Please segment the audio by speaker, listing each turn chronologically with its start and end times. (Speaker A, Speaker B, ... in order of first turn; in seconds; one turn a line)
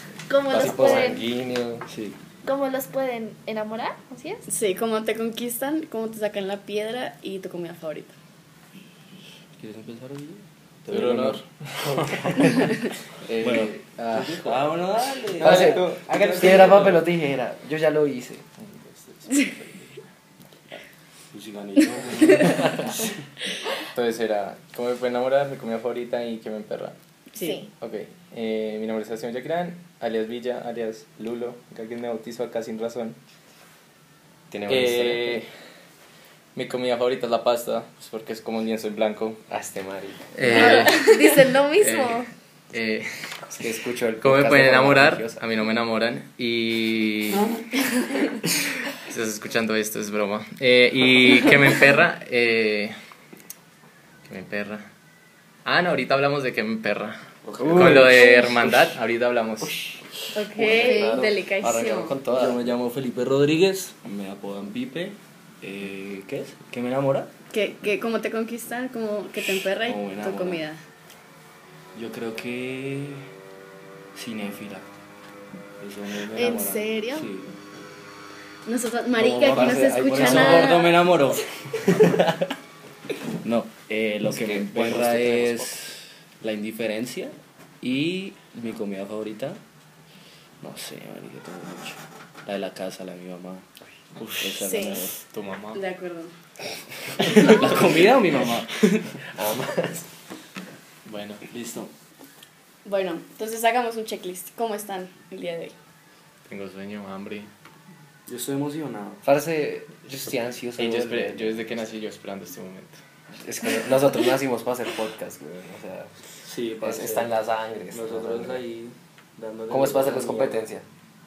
Speaker A: 0.3-1.2
Speaker B: 0.5-1.9
Speaker C: 1.9-2.2
Speaker A: 2.4-4.4
Speaker D: 4.5-8.1
Speaker C: 9.6-12.7
Speaker E: 10.9-12.6
Speaker E: 13.2-14.8
Speaker C: 13.4-17.0
Speaker E: 15.4-17.1
Speaker B: 15.4-18.4
Speaker E: 18.6-20.0
Speaker C: 21.3-23.1
Speaker E: 23.9-26.9
Speaker D: 27.3-27.6
Speaker A: 27.4-27.7
Speaker E: 27.8-33.2
Speaker B: 34.5-35.4
Speaker E: 34.7-35.5
Speaker E: 36.5-39.4
Speaker B: 39.5-40.9
Speaker E: 40.3-43.1
Speaker A: 40.5-42.3
Speaker B: 43.5-45.4
Speaker E: 44.2-47.5
Speaker E: 48.9-52.9
Speaker E: 54.2-54.8
Speaker E: 55.6-59.9
Speaker C: 57.4-58.9
Speaker B: 57.6-58.2
Speaker D: 60.3-62.2
Speaker C: 60.5-67.3
Speaker A: 60.7-61.2
Speaker B: 61.7-62.6
Speaker D: 67.5-70.8
Speaker C: 69.7-70.6
Speaker C: 71.9-73.2
Speaker C: 74.1-74.9
Speaker C: 75.8-77.5
Speaker A: 76.3-77.3
Speaker D: 78.7-81.0
Speaker C: 79.2-82.4
Speaker B: 79.5-80.8
Speaker C: 83.4-89.6
Speaker B: 84.3-85.7
Speaker C: 90.6-93.7
Speaker C: 94.3-95.2
Speaker A: 94.6-95.0
Speaker E: 95.3-95.8
Speaker D: 95.7-96.3
Speaker C: 97.2-99.2
Speaker B: 99.3-100.0
Speaker E: 101.0-101.4
Speaker C: 101.5-101.9
Speaker D: 102.8-105.8
Speaker E: 106.5-107.5
Speaker C: 108.3-109.2
Speaker B: 109.2-111.7
Speaker E: 110.8-113.0
Speaker B: 113.4-116.1
Speaker C: 116.4-117.3
Speaker B: 116.8-118.6
Speaker C: 117.9-120.6
Speaker B: 119.7-120.8